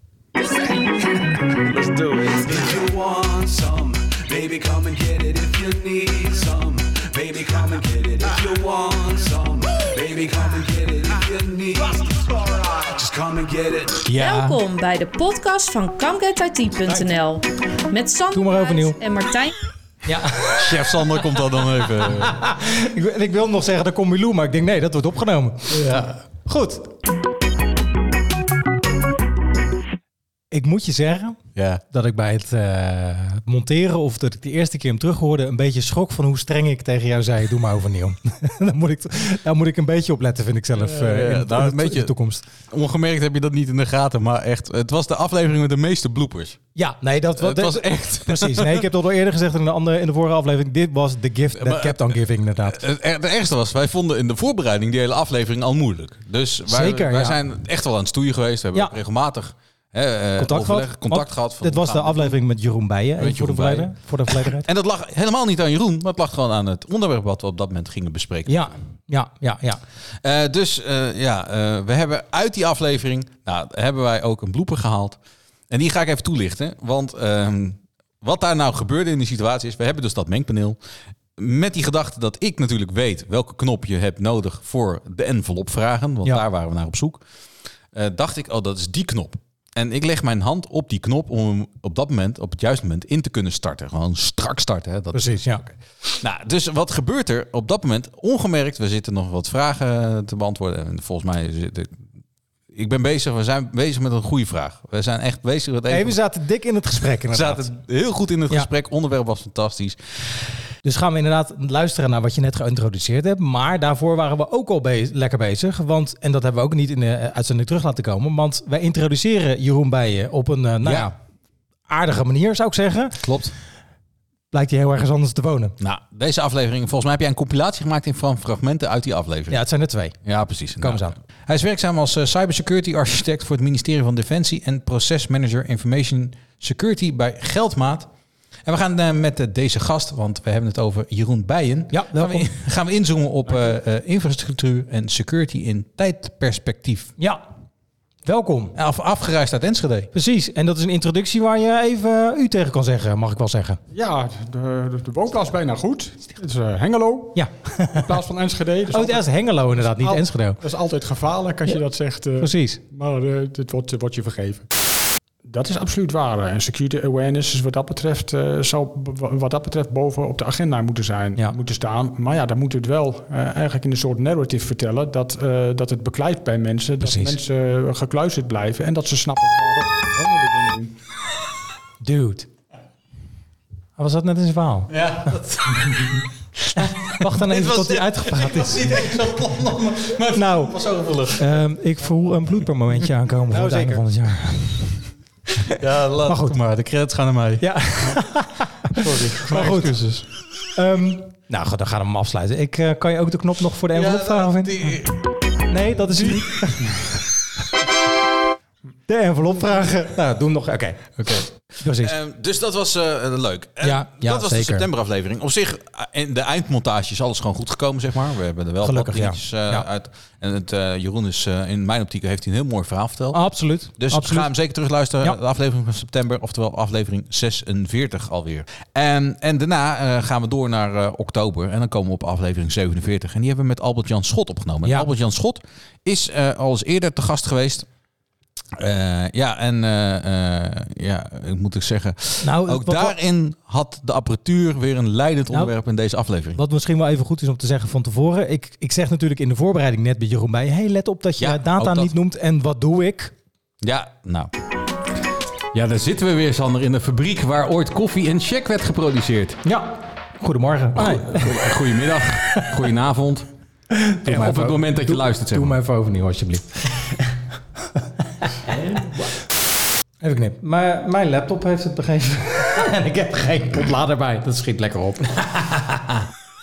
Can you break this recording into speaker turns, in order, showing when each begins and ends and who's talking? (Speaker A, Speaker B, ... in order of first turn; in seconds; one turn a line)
Speaker A: 1.6-14.1
Speaker B: 14.1-14.6
Speaker C: 14.2-19.6
Speaker B: 18.3-19.0
Speaker B: 20.1-20.9
Speaker D: 20.5-22.4
Speaker B: 22.0-25.8
Speaker D: 25.7-26.2
Speaker B: 26.4-26.9
Speaker B: 30.5-31.4
Speaker D: 31.6-31.8
Speaker B: 31.9-42.5
Speaker D: 40.8-42.1
Speaker D: 42.7-46.6
Speaker B: 46.8-52.8
Speaker D: 47.4-48.9
Speaker D: 51.6-62.4
Speaker B: 56.7-57.4
Speaker B: 60.4-64.7
Speaker D: 63.2-68.8
Speaker B: 68.5-69.8
Speaker D: 70.2-75.2
Speaker D: 75.7-80.8
Speaker D: 81.4-87.2
Speaker D: 87.9-102.0
Speaker B: 95.1-95.7
Speaker D: 102.7-106.2
Speaker B: 105.9-107.7
Speaker D: 107.3-110.0
Speaker B: 110.8-121.2
Speaker D: 120.8-121.1
Speaker B: 121.9-123.2
Speaker D: 123.2-123.5
Speaker B: 124.5-125.8
Speaker D: 125.8-129.6
Speaker B: 129.5-130.2
Speaker D: 130.2-138.1
Speaker B: 130.8-131.2
Speaker D: 138.7-147.1
Speaker B: 141.9-142.5
Speaker B: 148.3-148.8
Speaker D: 148.8-150.1
Speaker B: 150.1-153.8
Speaker E: 153.9-164.7
Speaker B: 157.3-158.1
Speaker B: 158.9-160.6
Speaker B: 162.4-162.8
Speaker E: 165.4-180.9
Speaker B: 177.0-177.4
Speaker B: 182.0-182.5
Speaker B: 184.0-185.3
Speaker D: 184.9-186.2
Speaker D: 186.8-191.6
Speaker B: 186.8-189.1
Speaker B: 190.3-190.8
Speaker B: 191.3-194.9
Speaker D: 193.5-194.0
Speaker D: 195.7-198.2
Speaker B: 196.3-196.6
Speaker B: 197.6-199.9
Speaker D: 199.0-200.3
Speaker B: 200.8-205.0
Speaker D: 203.9-205.2
Speaker B: 205.7-207.1
Speaker B: 209.1-212.1
Speaker D: 211.2-223.4
Speaker B: 213.8-214.9
Speaker B: 218.8-219.9
Speaker B: 223.3-224.5
Speaker D: 224.0-237.9
Speaker D: 238.8-246.6
Speaker B: 242.4-243.2
Speaker B: 246.6-253.3
Speaker D: 251.4-252.1
Speaker D: 253.8-254.5
Speaker D: 255.7-259.6
Speaker B: 259.6-261.6
Speaker D: 261.0-263.5
Speaker B: 263.9-267.2
Speaker D: 264.2-265.8
Speaker B: 268.5-269.3
Speaker B: 270.2-275.7